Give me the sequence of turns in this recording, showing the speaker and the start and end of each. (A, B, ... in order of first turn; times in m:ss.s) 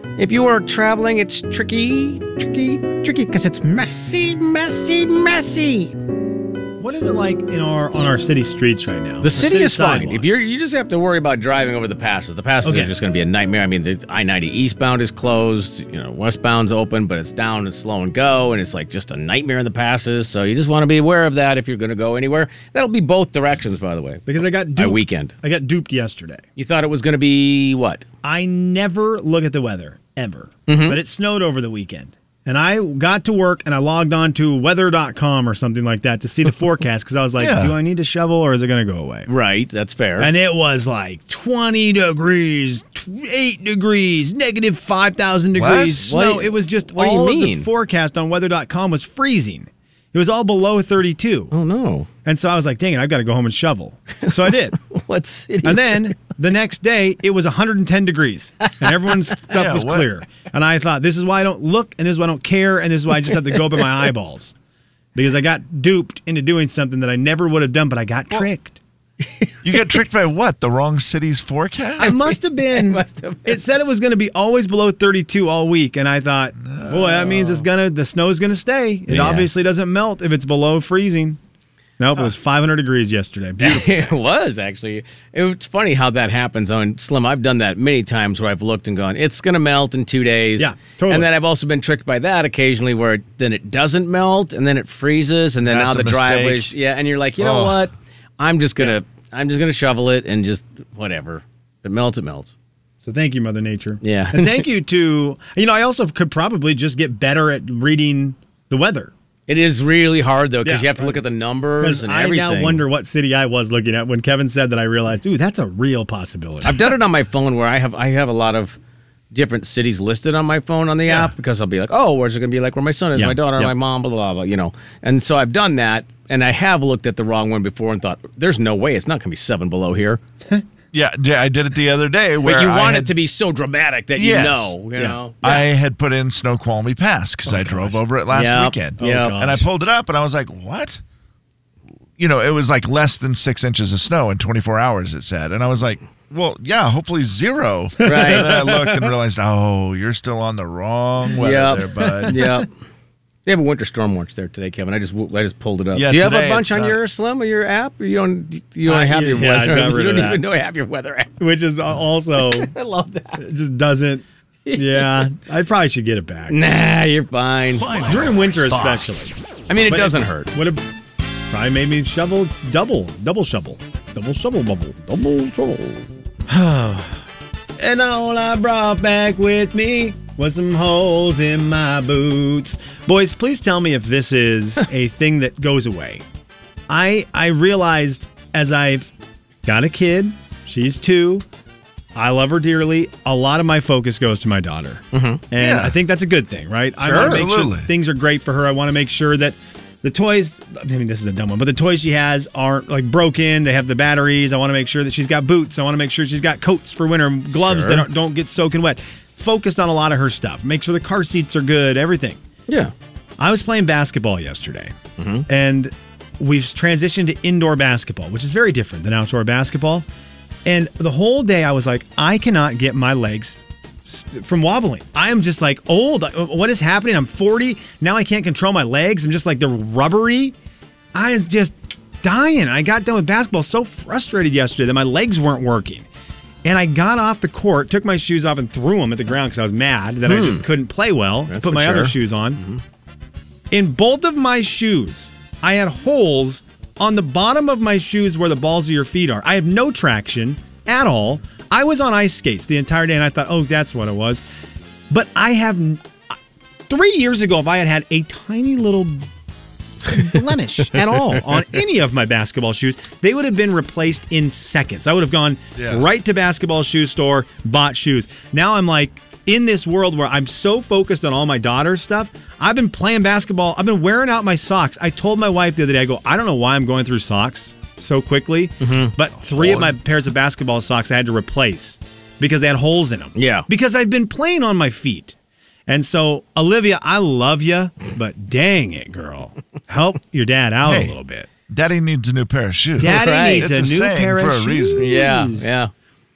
0:00.2-0:05.9 A
0:06.8-0:10.4 B
0:09.2-0:25.3 A
0:12.6-0:12.9 B
0:24.2-0:26.4 B
0:26.6-0:28.0 A
0:28.2-0:39.3 B
0:30.7-0:31.0 A
0:37.4-0:37.8 C
0:39.3-0:40.3 A
0:40.2-0:51.5 B
0:45.5-0:46.2 C
0:46.0-0:47.7 A
0:51.5-0:52.1 A
0:52.2-0:54.8 B
0:54.3-0:56.1 A
0:55.6-1:04.5 B
0:59.5-1:00.1 C
1:05.1-1:08.8 B
1:09.6-1:12.2 C
1:12.0-1:21.4 B
1:12.0-1:13.6 A
1:16.6-1:17.6 C
1:19.1-1:19.5 A
1:22.0-1:24.1 B
1:23.6-1:42.5 A
1:30.6-1:31.3 B
1:35.6-1:36.8 C
1:37.4-1:37.8 C
1:43.0-1:49.1 B
1:44.0-1:44.6 A
1:49.5-1:52.8 A
1:50.6-1:51.2 B
1:51.8-1:56.9 B
1:56.6-1:58.8 A
1:59.3-2:10.2 A
2:03.2-2:03.7 C
2:03.2-2:03.7 B
2:10.9-2:13.1 C
2:12.4-2:15.6 A
2:14.2-2:14.8 C
2:15.0-2:15.5 B
2:15.4-2:21.0 C
2:17.4-2:18.0 B
2:18.3-2:19.4 A
2:19.0-2:19.7 B
2:22.2-2:32.4 C
2:28.0-2:28.6 A
2:28.0-2:29.0 B
2:31.4-2:32.7 A
2:32.0-2:32.5 B
2:33.4-2:41.3 A
2:35.9-2:37.0 C
2:38.9-2:40.4 B
2:41.4-2:42.7 B
2:42.4-2:43.4 A
2:43.4-2:46.6 B
2:44.6-2:45.3 A
2:46.5-2:48.1 A
2:48.1-2:50.8 B
2:49.7-2:50.5 A
2:51.5-2:55.1 B
2:55.1-2:56.0 A
2:56.5-2:57.1 B
2:57.8-3:06.2 B
3:06.9-3:09.1 B
3:09.6-3:11.4 B
3:12.1-3:32.4 B
3:15.1-3:15.4 A
3:15.6-3:16.0 C
3:17.0-3:17.5 A
3:17.0-3:17.9 C
3:27.5-3:28.0 A
3:32.7-3:32.9 A
3:33.4-3:34.9 B
3:35.2-3:35.4 A
3:35.5-3:40.0 B
3:40.6-3:50.5 B
3:51.1-3:56.1 B
3:56.6-4:02.6 B
4:00.2-4:00.7 A
4:01.5-4:02.8 A
4:03.7-4:14.4 B
4:15.1-4:16.0 B
4:16.9-4:19.3 B
4:20.0-4:45.3 B
4:25.8-4:26.1 C
4:38.8-4:39.1 A
4:39.4-4:40.0 C
4:43.3-4:43.7 A
4:45.9-4:51.5 B
4:50.8-4:51.1 C
4:51.7-4:55.1 C
4:53.0-4:55.7 B
4:53.0-4:53.7 A
4:55.0-4:55.9 A